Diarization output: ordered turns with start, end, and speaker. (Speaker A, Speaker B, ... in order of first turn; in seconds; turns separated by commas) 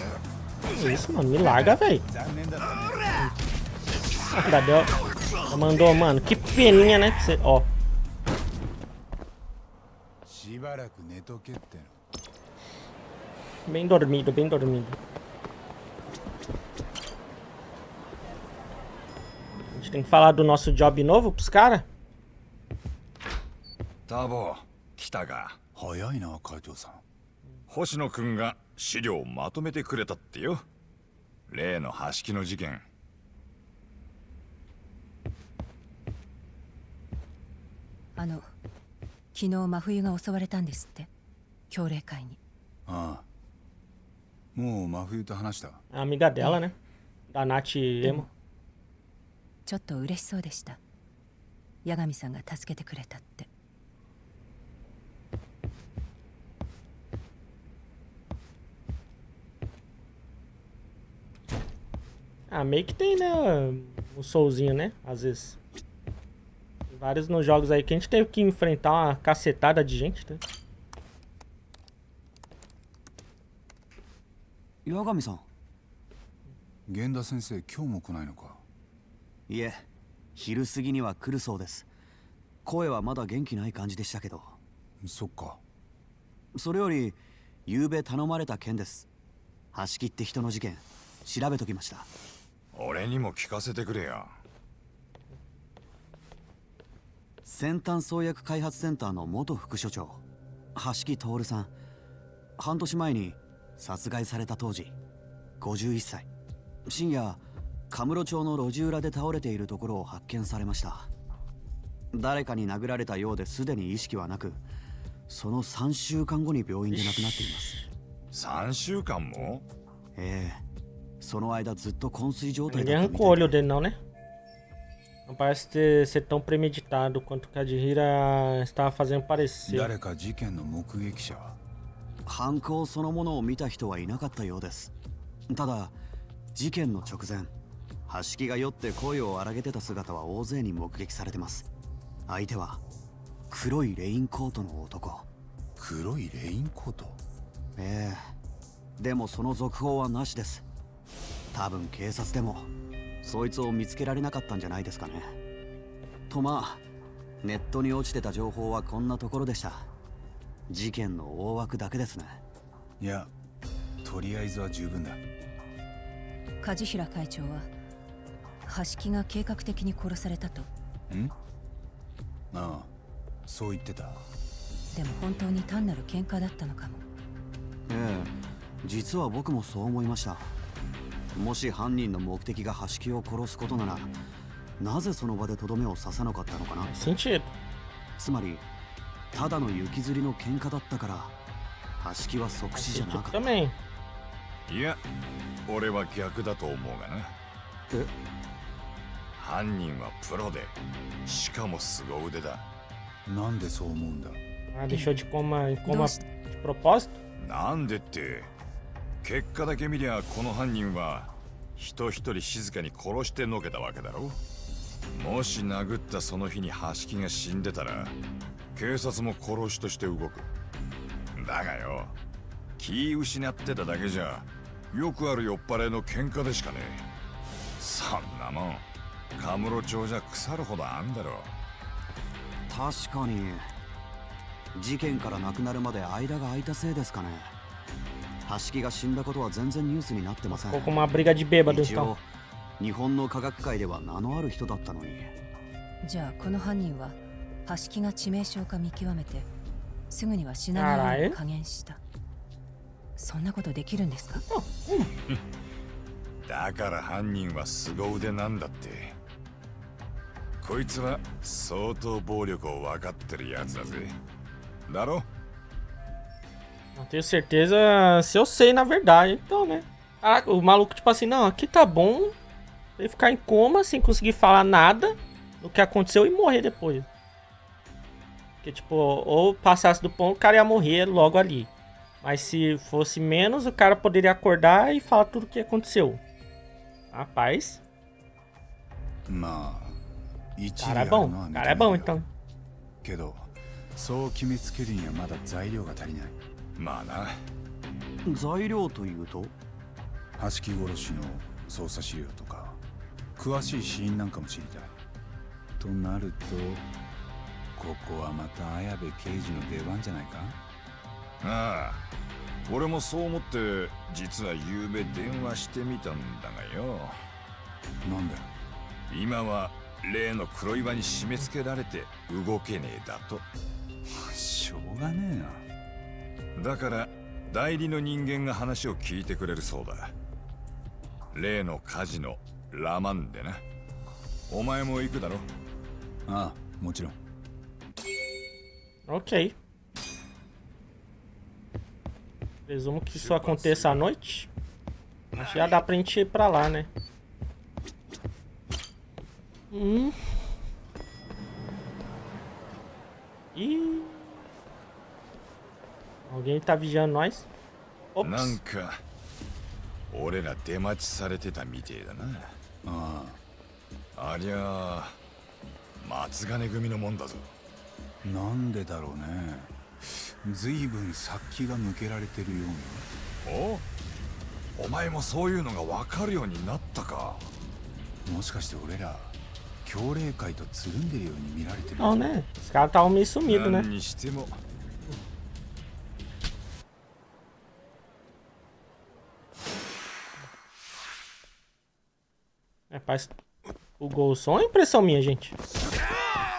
Speaker A: 0.7-2.0, Speaker B: 1.4-3.1, Speaker A: 4.3-4.9, Speaker A: 5.5-7.7, Speaker B: 10.2-12.0, Speaker A: 13.7-15.0, Speaker A: 19.7-21.8, Speaker C: 24.1-25.6, Speaker B: 25.7-27.0, Speaker C: 27.7-30.6, Speaker C: 31.5-32.9, Speaker D: 38.1-38.5, Speaker D: 39.3-41.1, Speaker D: 41.7-42.4, Speaker B: 42.9-43.2, Speaker B: 44.5-45.8, Speaker A: 45.9-46.7, Speaker A: 47.3-48.3, Speaker D: 49.6-50.8, Speaker D: 51.8-53.5, Speaker A: 62.5-65.6, Speaker A: 66.9-70.4, Speaker E: 74.8-75.5, Speaker B: 76.9-78.6, Speaker E: 79.5-81.9, Speaker E: 82.6-84.6, Speaker B: 85.0-85.6, Speaker E: 86.5-89.1, Speaker E: 89.7-92.1, Speaker C: 92.7-94.4, Speaker E: 97.5-100.2, Speaker E: 100.7-101.7, Speaker E: 102.6-104.9, Speaker E: 105.6-106.3, Speaker E: 106.8-111.1, Speaker E: 112.1-114.6, Speaker E: 115.3-117.8, Speaker A: 116.9-117.9, Speaker C: 118.3-119.7, Speaker E: 120.2-120.6, Speaker E: 121.2-123.6, Speaker A: 122.7-124.0, Speaker A: 125.3-129.9, Speaker B: 129.7-131.6, Speaker E: 132.2-134.9, Speaker E: 135.5-135.9, Speaker E: 136.5-137.5, Speaker E: 138.1-141.7, Speaker E: 142.3-142.8, Speaker E: 143.5-145.3, Speaker B: 145.8-147.2, Speaker E: 147.8-148.3, Speaker E: 149.0-150.7, Speaker E: 151.5-152.7, Speaker E: 153.2-155.3, Speaker E: 156.3-156.8, Speaker E: 157.4-159.9, Speaker E: 160.7-162.4, Speaker B: 163.0-163.3, Speaker B: 164.0-165.2, Speaker D: 166.6-167.7, Speaker D: 168.7-170.7, Speaker B: 172.5-172.9, Speaker B: 173.5-174.2, Speaker D: 174.9-177.0, Speaker E: 177.9-180.5, Speaker E: 181.3-184.1, Speaker E: 184.8-186.9, Speaker A: 186.8-187.5, Speaker E: 188.2-188.6, Speaker E: 189.3-191.3, Speaker E: 192.0-193.4, Speaker A: 192.7-193.7, Speaker C: 194.7-195.0, Speaker C: 195.7-197.3, Speaker C: 199.4-202.7, Speaker B: 203.2-204.4, Speaker A: 204.7-207.2, Speaker D: 205.8-206.2, Speaker C: 207.4-208.5, Speaker C: 209.2-214.4, Speaker C: 215.1-218.1, Speaker C: 218.7-220.5, Speaker C: 221.3-222.1, Speaker C: 222.8-227.1, Speaker C: 227.8-228.8, Speaker C: 229.4-231.5, Speaker E: 232.7-233.7, Speaker E: 234.7-237.5, Speaker E: 238.4-242.2, Speaker A: 240.5-242.1, Speaker E: 242.8-245.3, Speaker D: 246.0-249.5, Speaker D: 250.1-252.0, Speaker A: 250.7-251.4, Speaker D: 253.2-254.4, Speaker A: 254.5-255.1, Speaker C: 256.4-259.2, Speaker C: 260.6-264.1, Speaker C: 264.9-265.2, Speaker A: 266.9-272.3, Speaker A: 273.0-277.1, Speaker A: 278.6-281.7, Speaker A: 282.2-286.2, Speaker A: 287.1-287.8, Speaker B: 289.2-290.0, Speaker B: 290.6-292.1, Speaker A: 290.8-292.3, Speaker B: 293.0-296.4, Speaker C: 296.8-297.4, Speaker E: 298.2-299.5, Speaker B: 300.4-302.8, Speaker B: 303.4-304.9, Speaker B: 305.8-306.9, Speaker B: 307.7-310.6, Speaker C: 311.4-312.0, Speaker C: 312.7-317.2, Speaker B: 318.0-318.5, Speaker C: 319.1-323.4, Speaker B: 324.1-325.6, Speaker C: 326.6-330.1, Speaker C: 331.3-333.6, Speaker C: 334.5-335.5, Speaker B: 336.3-337.2, Speaker A: 339.1-339.6, Speaker A: 342.7-344.5, Speaker C: 343.2-344.0, Speaker A: 345.3-346.9, Speaker A: 349.7-350.3, Speaker A: 353.5-354.4, Speaker A: 356.3-357.5, Speaker A: 358.1-358.6, Speaker C: 358.2-359.0, Speaker C: 360.1-362.6, Speaker B: 362.8-363.4, Speaker C: 364.1-365.2, Speaker C: 366.0-367.5, Speaker B: 368.2-373.1, Speaker C: 373.4-373.8, Speaker C: 374.8-377.5, Speaker B: 378.2-382.3, Speaker A: 382.0-383.9, Speaker C: 383.4-384.6, Speaker A: 392.9-393.3, Speaker A: 394.0-395.6